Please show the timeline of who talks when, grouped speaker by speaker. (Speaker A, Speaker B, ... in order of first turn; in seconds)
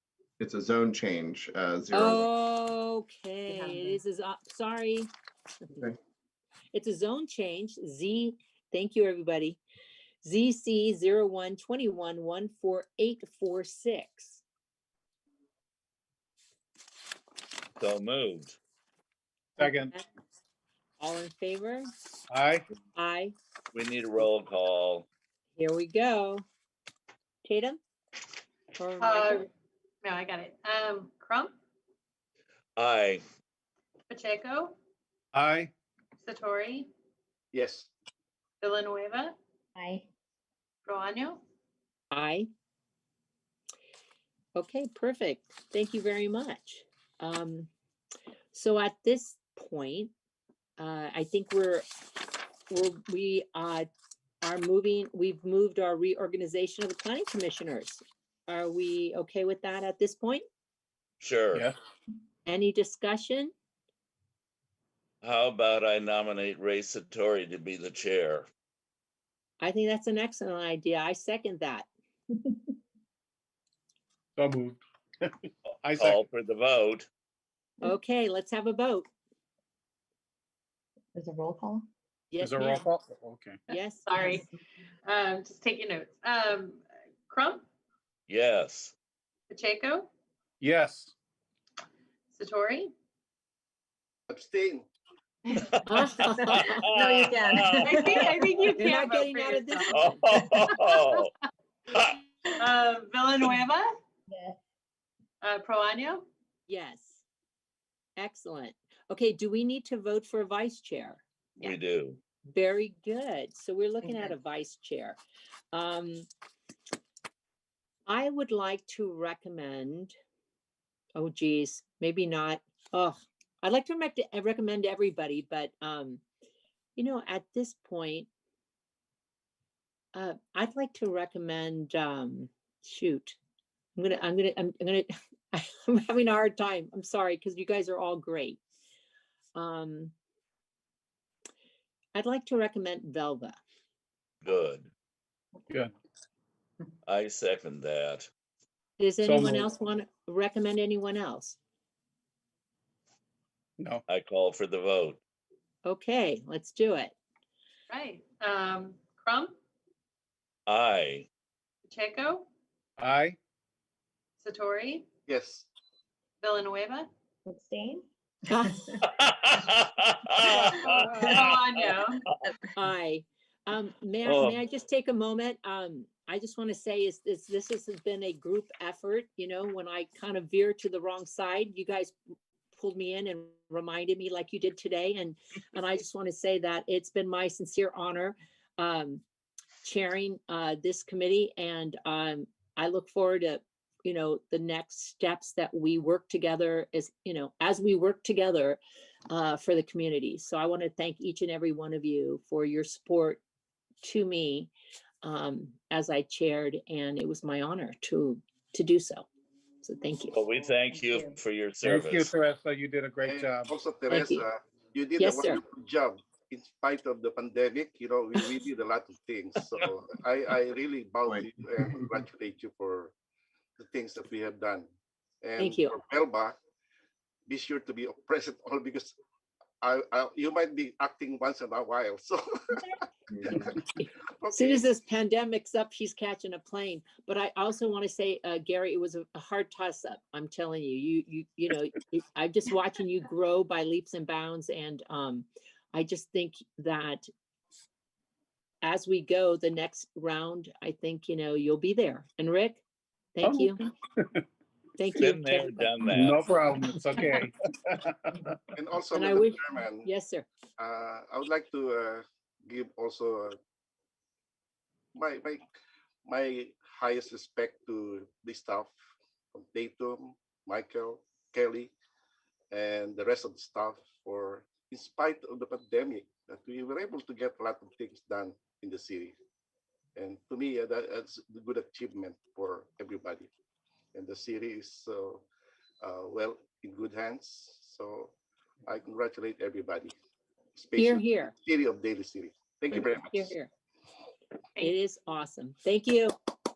Speaker A: 0.4-2.3, 221.2-222.1, 233.3-233.7
Speaker B: 1.9-5.1, 6.7-9.6, 10.2-14.4, 19.6-20.1, 21.0-21.9, 22.9-23.4, 25.6-26.4, 27.4-27.8, 28.8-29.5, 42.1-42.5, 44.6-47.7, 48.5-50.1, 50.8-51.9, 52.7-53.9, 54.4-60.4, 62.5-63.5, 69.6-71.9, 77.8-79.1, 82.3-82.9, 83.7-84.4, 95.9-96.9, 98.8-100.2, 106.7-107.2, 108.2-111.2, 112.5-115.2, 115.7-116.3, 118.1-120.1, 121.2-126.2, 127.0-128.3, 130.1-133.4, 134.0-138.6, 139.6-140.1, 142.2-143.6, 149.0-151.6, 155.8-157.2, 168.5-168.9, 172.7-182.2, 182.7-189.2, 189.8-203.4, 204.0-204.7, 205.2-209.3, 209.8-210.4, 214.1-214.4, 215.2-215.6, 225.6-225.9, 233.5-247.3, 248.8-252.8, 253.3-253.8, 255.0-255.9, 259.1-260.5, 291.0-291.5, 293.3-293.7, 294.8-296.3
Speaker C: 3.5-4.0, 39.8-40.0, 81.2-81.9, 96.5-98.3, 104.3-104.6, 167.5-168.1, 210.9-211.3
Speaker D: 17.8-18.6, 23.7-25.1, 32.8-33.2, 61.2-61.7, 65.2-68.5, 76.0-77.1, 88.3-88.9, 95.5-98.1, 99.9-101.3, 101.9-102.2, 111.6-112.2, 144.4-144.9, 147.1-148.3, 154.1-155.2, 160.7-161.3, 169.1-171.5, 174.2-174.6, 210.3-212.3, 255.2-256.4
Speaker E: 19.6-19.9, 22.3-22.6, 35.3-35.7, 74.4-75.3, 75.8-76.2, 82.4-83.6, 90.6-91.1, 149.2-149.7, 163.0-163.4, 211.8-213.7, 253.4-254.2, 256.1-258.5
Speaker F: 29.0-29.5, 30.0-31.5, 34.1-34.8, 36.2-36.9, 38.6-39.4, 40.9-41.4, 84.1-84.5, 85.0-87.6, 89.5-90.1, 92.3-92.9, 97.8-100.4, 102.5-103.9, 105.4-106.2, 157.9-159.6, 161.9-162.5, 164.4-165.1, 166.4-167.1, 170.7-172.5
Speaker G: 37.5-37.9, 94.3-94.9, 165.3-165.7, 213.2-223.2, 223.8-224.9, 225.4-226.6, 227.5-229.1, 229.8-232.8, 234.4-234.9, 258.8-260.1, 260.8-263.6, 265.2-265.6, 266.3-268.9, 269.5-271.9, 272.7-279.4, 280.2-283.5, 284.1-285.4, 286.0-288.3, 288.9-290.1, 290.8-293.5